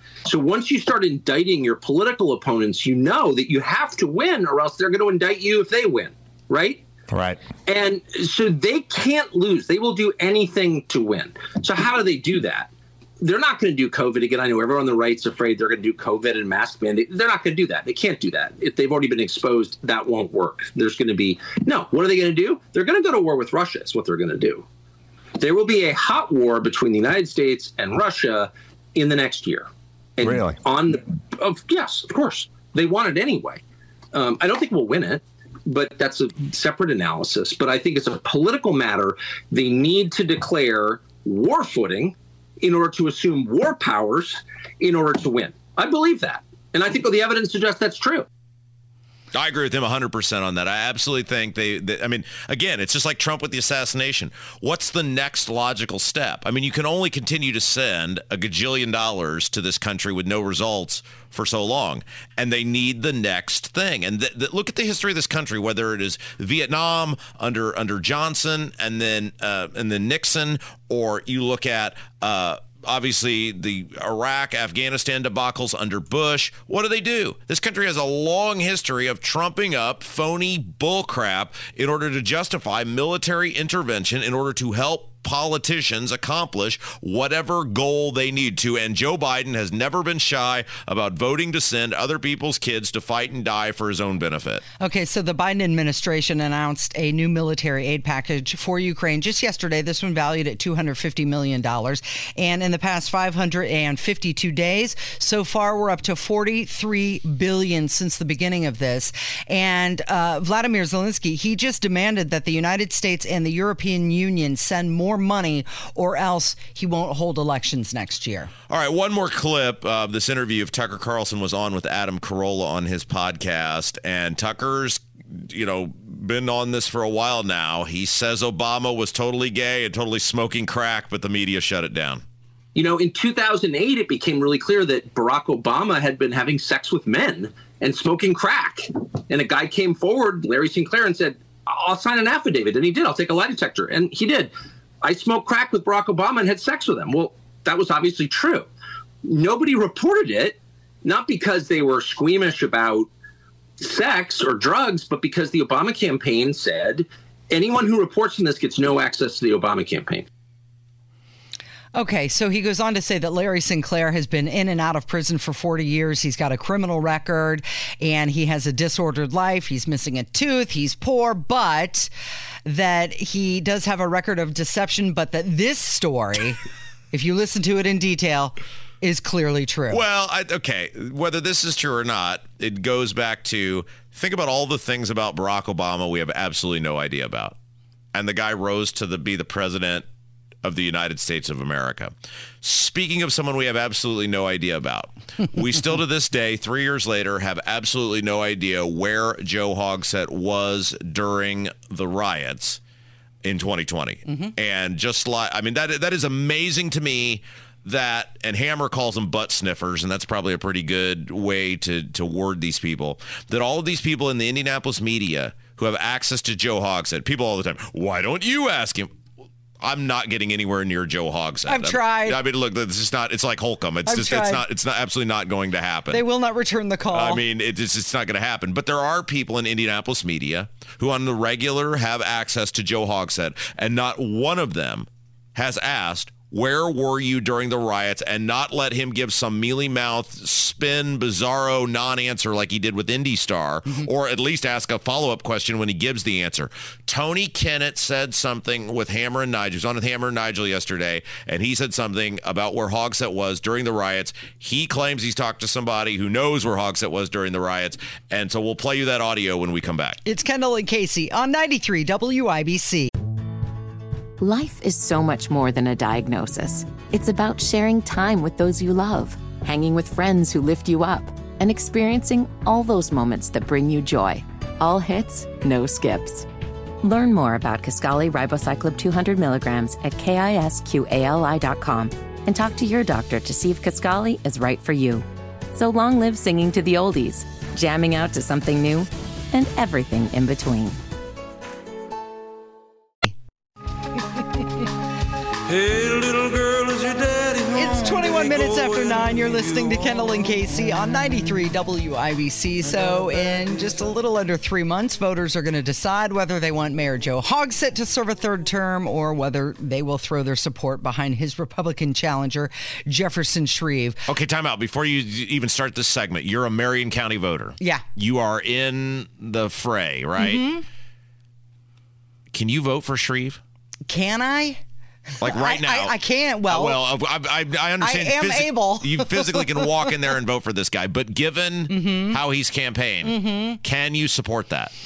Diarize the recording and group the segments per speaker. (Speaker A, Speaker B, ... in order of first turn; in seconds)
Speaker A: 0.2-6.8, 7.7-24.6, 25.4-33.6, 34.1-48.2, 132.7-148.7, 149.2-153.1, 153.8-160.3
Speaker B: 7.1-7.4, 30.2-30.6, 295.7-297.5
Speaker C: 49.3-94.6, 118.7-132.2, 179.9-187.6, 188.1-190.1, 190.6-202.8, 203.4-219.1, 219.8-226.2, 227.1-260.2, 314.3-320.6, 322.5-323.6, 325.4-326.1, 326.7-334.9
Speaker D: 94.8-118.5, 161.9-172.1, 172.6-176.6, 177.1-180.0, 221.7-222.4, 224.1-224.6, 226.1-227.4, 260.2-263.1, 297.7-314.2, 320.4-320.8, 324.1-324.8, 325.4-327.0, 328.0-330.1, 331.9-332.4, 333.2-333.8
Speaker E: 264.4-276.4, 277.0-291.0